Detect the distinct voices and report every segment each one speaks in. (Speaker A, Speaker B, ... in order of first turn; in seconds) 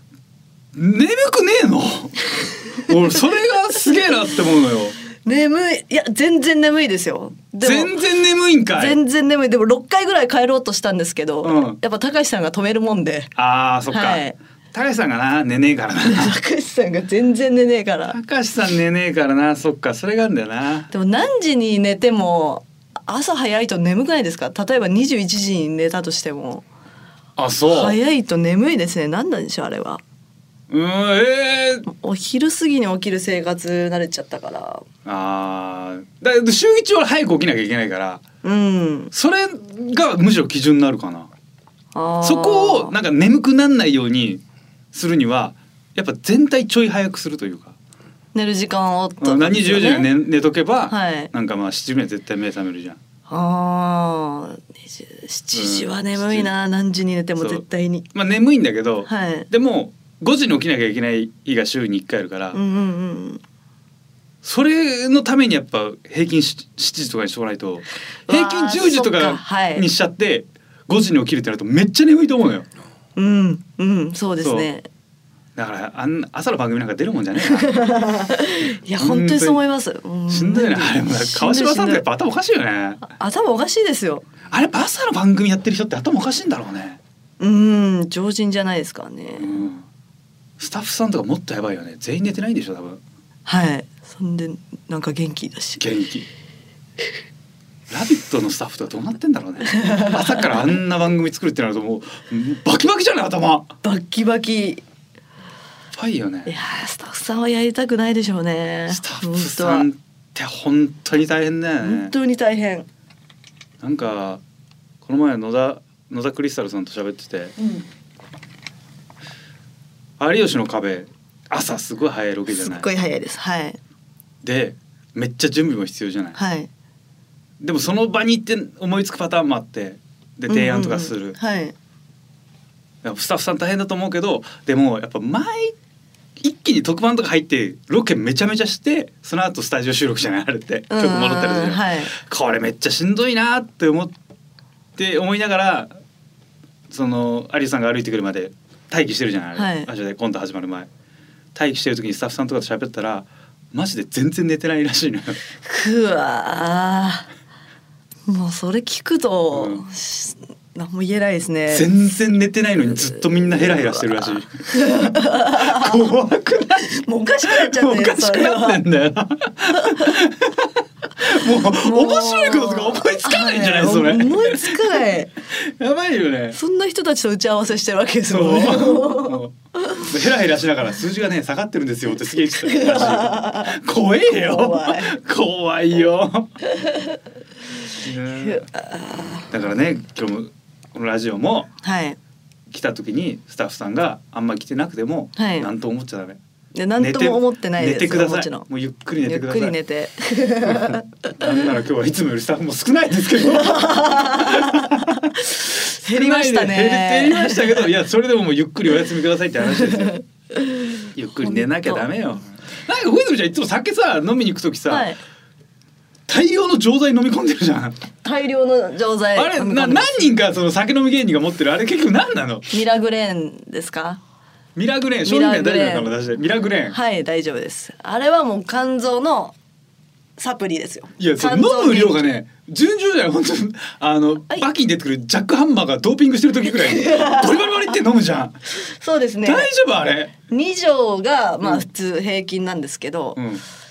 Speaker A: 0.7-5.0, 7.6-9.0, 11.4-11.8, 13.3-16.4, 18.1-20.9, 27.4-28.0, 30.7-31.9, 35.0-38.2, 39.1-41.3, 42.2-44.4, 44.9-47.8, 49.2-53.0, 55.5-56.5, 57.4-62.6, 64.4-72.7, 74.4-74.7, 75.5-77.7, 79.0-79.6, 80.3-83.0, 84.5-87.0, 89.4-89.8, 90.6-93.0, 95.8-96.3, 97.9-103.7, 105.9-106.5, 108.9-112.1, 113.8-114.4, 115.0-117.5, 120.2-122.9, 124.4-126.4, 127.6-131.4, 133.0-135.7, 136.4-144.1, 145.0-145.9, 146.9-150.9, 151.5-155.4, 159.5-159.9, 161.7-166.9, 167.4-175.0, 175.5-176.6, 178.3-186.5, 187.9-188.7, 189.5-191.7, 192.7-196.4, 197.0-199.8, 201.3-205.2, 205.8-210.2, 211.1-215.1, 216.3-218.0, 219.3-222.7, 224.8-226.9, 231.2-238.7, 239.4-240.3, 243.3-243.6
Speaker B: 5.2-8.0, 8.8-13.3, 13.9-14.3, 16.0-18.2, 20.9-26.6, 27.7-30.0, 31.9-34.8, 38.4-39.1, 41.9-42.9, 48.3-50.1, 50.9-51.3, 53.3-58.1, 59.0-59.5, 62.5-63.4, 68.3-69.9, 73.2-74.9, 77.5-82.0, 83.0-84.3, 87.4-89.7, 93.5-95.8, 99.7-100.4, 103.8-104.8, 106.5-109.9, 111.8-112.9, 122.5-123.8, 126.3-126.7, 130.5-131.7, 140.9-142.1, 149.5-149.9, 155.6-157.3, 158.3-161.9, 164.7-166.0, 166.8-168.8, 169.7-170.1, 171.8-175.3, 176.5-180.0, 182.6-185.2, 186.6-187.2, 188.4-189.5, 191.8-192.2, 195.3-195.7, 196.7-198.7, 199.2-201.4, 203.6-207.9, 209.8-212.1, 214.9-215.2, 218.2-220.2, 222.7-224.2, 225.2-226.1, 226.9-229.5, 230.4-232.2, 236.7-237.9, 238.8-239.7, 240.4-243.4